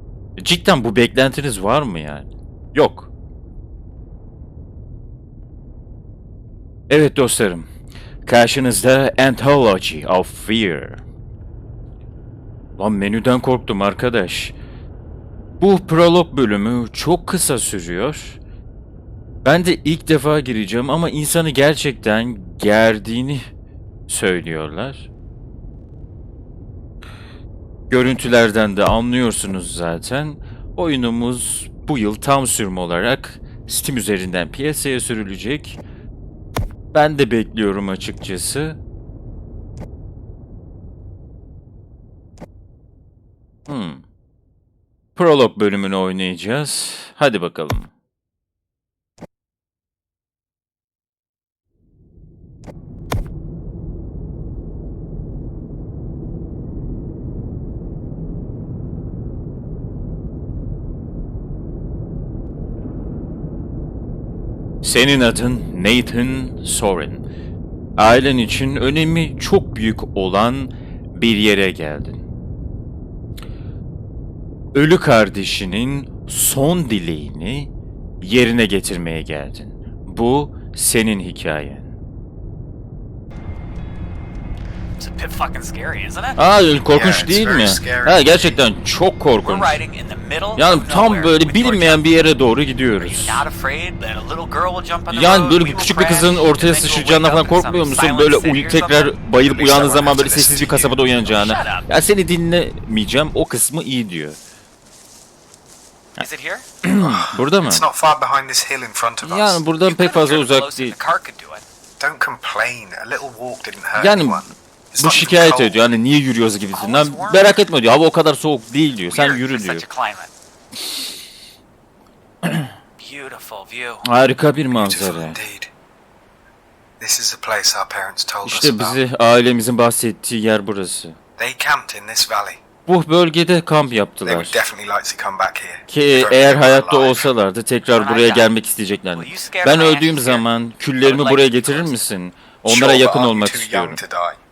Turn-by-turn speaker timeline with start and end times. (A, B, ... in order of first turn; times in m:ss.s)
0:00.4-0:03.1 A
0:06.9-0:07.7 A
0:08.2-0:11.0 A
0:12.8-0:14.6 A
0:15.6-0:18.4 A
0:19.4-0:23.5 A
0:24.1-0:25.1 A
0:27.9-0:35.8 A
0:36.9-0:38.8 A
0:43.7-0:44.0 A
0:45.2-0:47.9 A
1:04.8-1:07.2 A
1:08.0-1:12.2 A
1:14.7-1:21.9 A
1:25.0-1:26.4 B
1:26.4-1:29.8 A
1:26.9-1:28.6 C
1:29.4-1:32.0 B
1:30.6-1:33.4 A
1:32.9-1:39.1 B
1:35.1-1:44.4 A
1:39.4-1:41.1 C
1:41.2-1:41.9 B
1:46.2-1:46.6 B
1:46.8-1:47.9 A
1:47.0-1:49.6 C
1:49.2-1:51.0 A
1:49.8-1:51.6 B
1:52.0-1:55.8 C
1:54.0-1:59.8 A
1:56.7-1:57.6 B
1:59.1-2:00.3 B
2:02.4-2:02.7 A
2:03.0-2:04.0 B
2:04.0-2:05.4 A
2:04.7-2:05.7 C
2:07.0-2:09.0 C
2:08.4-2:11.2 A
2:11.4-2:12.6 C
2:12.9-2:14.6 A
2:14.2-2:17.3 C
2:15.9-2:24.0 A
2:17.9-2:18.5 B
2:19.1-2:20.5 B
2:21.0-2:22.1 B
2:22.6-2:24.4 C